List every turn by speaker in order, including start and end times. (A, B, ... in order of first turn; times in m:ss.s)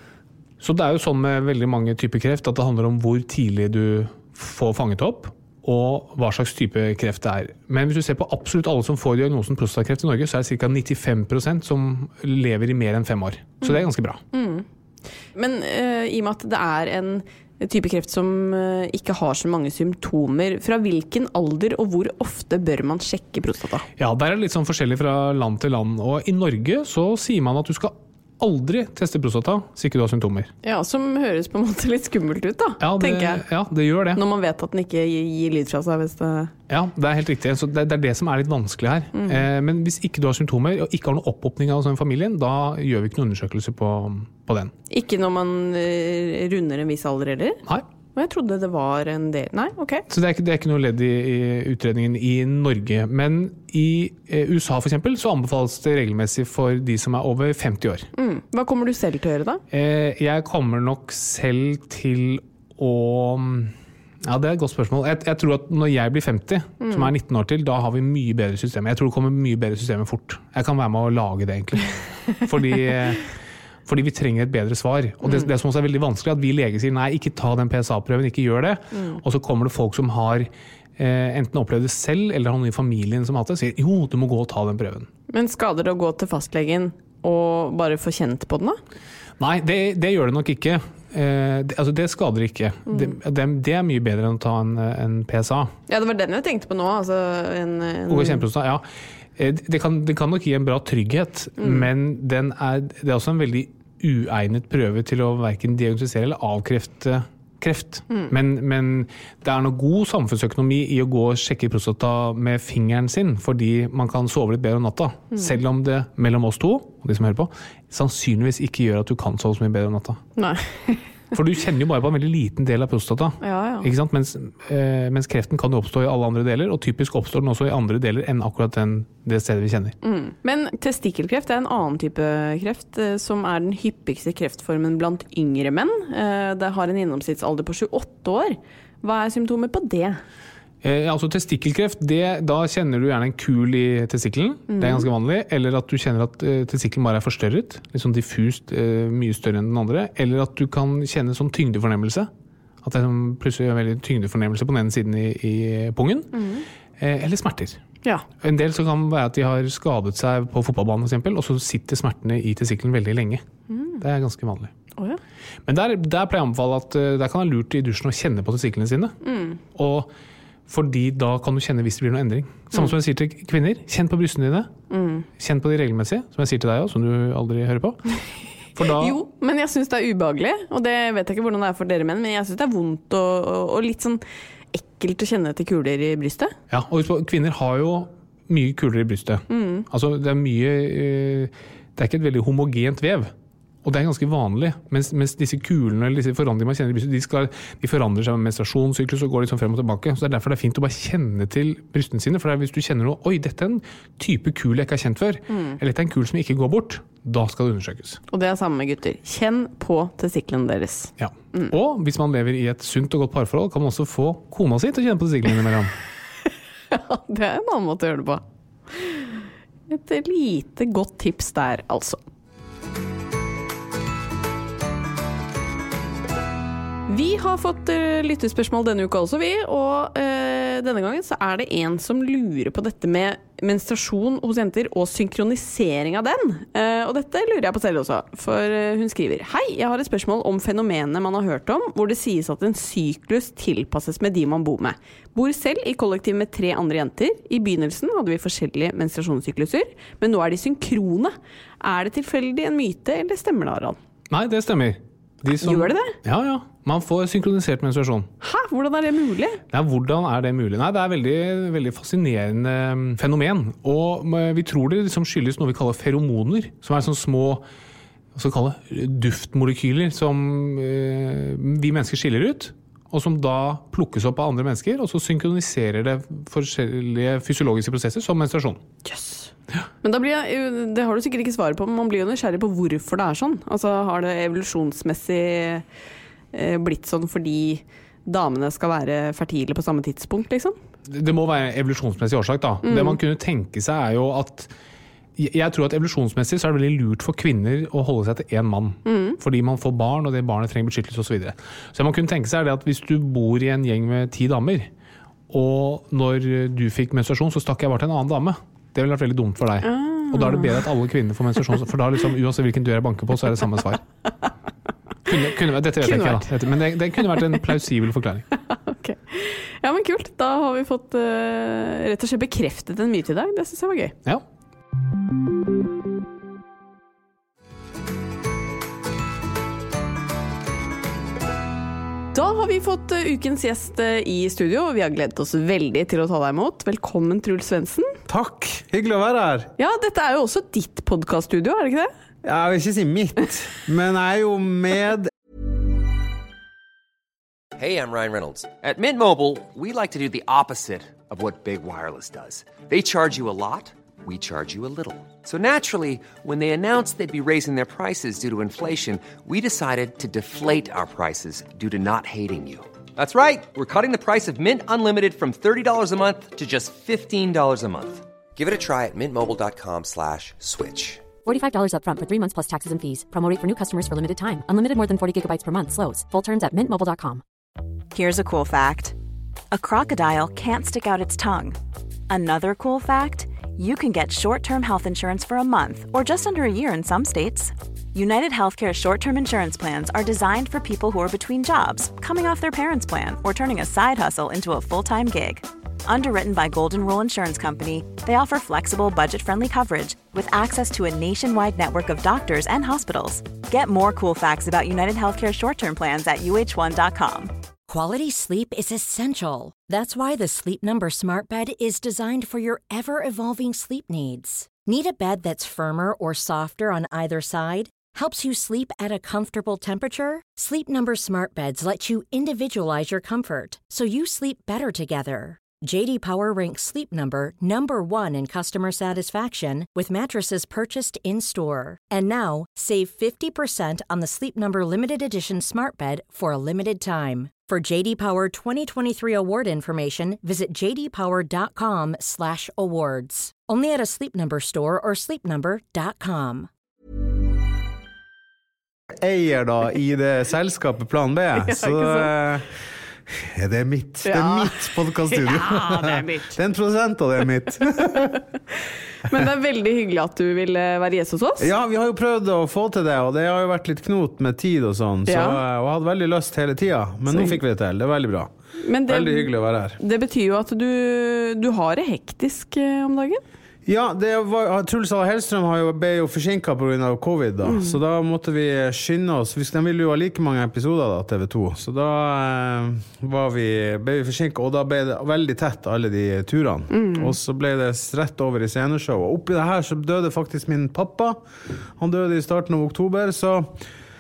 0:00.6-0:14.2 A
0:13.6-0:14.6 B
0:15.3-0:23.8 B
0:24.0-0:30.5 A
0:30.6-0:33.4 B
0:32.8-0:34.2 A
0:34.1-0:36.5 B
0:36.7-0:44.7 A
0:39.1-0:39.4 B
0:44.9-0:47.6 B
0:48.2-0:50.0 B
0:50.1-0:58.1 A
0:58.2-0:59.6 B
0:59.7-1:03.7 A
1:04.2-1:13.3 A
1:06.8-1:07.1 B
1:13.8-1:25.1 A
1:18.9-1:19.2 B
1:25.3-1:28.8 B
1:29.4-1:35.7 A
1:32.9-1:33.1 B
1:35.9-1:38.4 B
1:38.1-1:38.8 A
1:39.4-2:00.2 A
1:41.6-1:41.9 B
2:00.4-2:01.0 B
2:01.3-2:10.0 A
2:03.4-2:03.9 B
2:10.0-2:20.2 B
2:20.8-2:32.3 A
2:24.7-2:25.1 B
2:32.8-2:36.4 A
2:36.3-2:36.6 B
2:37.0-2:37.8 A
2:38.4-2:43.4 A
2:43.7-2:44.0 B
2:44.0-2:44.7 A
2:45.7-2:49.2 A
2:49.2-2:49.6 B
2:49.7-2:50.1 A
2:50.7-2:54.7 A
2:54.9-2:55.2 B
2:55.4-2:58.2 A
2:58.7-2:59.2 A
2:59.0-3:06.5 B
3:06.7-3:13.3 A
3:09.5-3:09.8 B
3:13.8-3:28.2 A
3:25.5-3:25.8 B
3:28.3-3:31.7 B
3:31.2-3:35.9 A
3:36.9-3:39.2 B
3:39.9-3:42.2 B
3:47.1-4:14.0 B
4:14.3-4:18.3 A
4:15.6-4:16.2 B
4:18.4-4:19.6 B
4:19.7-4:27.6 A
4:28.3-4:38.8 A
4:39.0-4:39.5 B
4:40.0-4:45.8 B
4:46.5-4:50.8 B
4:51.1-4:54.7 A
4:52.8-4:53.2 B
4:55.4-5:04.9 A
4:59.0-4:59.4 B
5:05.5-5:14.0 A
5:09.8-5:10.8 B
5:15.2-5:18.5 A
5:16.0-5:16.4 B
5:18.7-5:24.1 B
5:32.3-5:38.2 B
5:38.3-5:39.7 C
5:39.8-5:42.1 B
5:42.4-5:45.3 C
5:47.8-6:11.3 D
6:11.4-6:17.4 E
6:18.1-6:19.1 F
6:19.7-6:21.8 F
6:22.3-6:47.5 F
6:47.9-7:26.7 G
7:29.2-7:38.4 C
7:31.6-7:32.3 B
7:34.2-7:36.5 B
7:39.2-7:41.7 B
7:41.6-7:48.5 C
7:45.2-7:45.6 B
7:47.3-7:47.6 B
7:48.8-7:53.4 B
7:49.1-7:50.0 C
7:53.8-8:11.4 C
7:57.6-7:58.0 B
8:06.9-8:07.3 B
8:12.0-8:13.8 C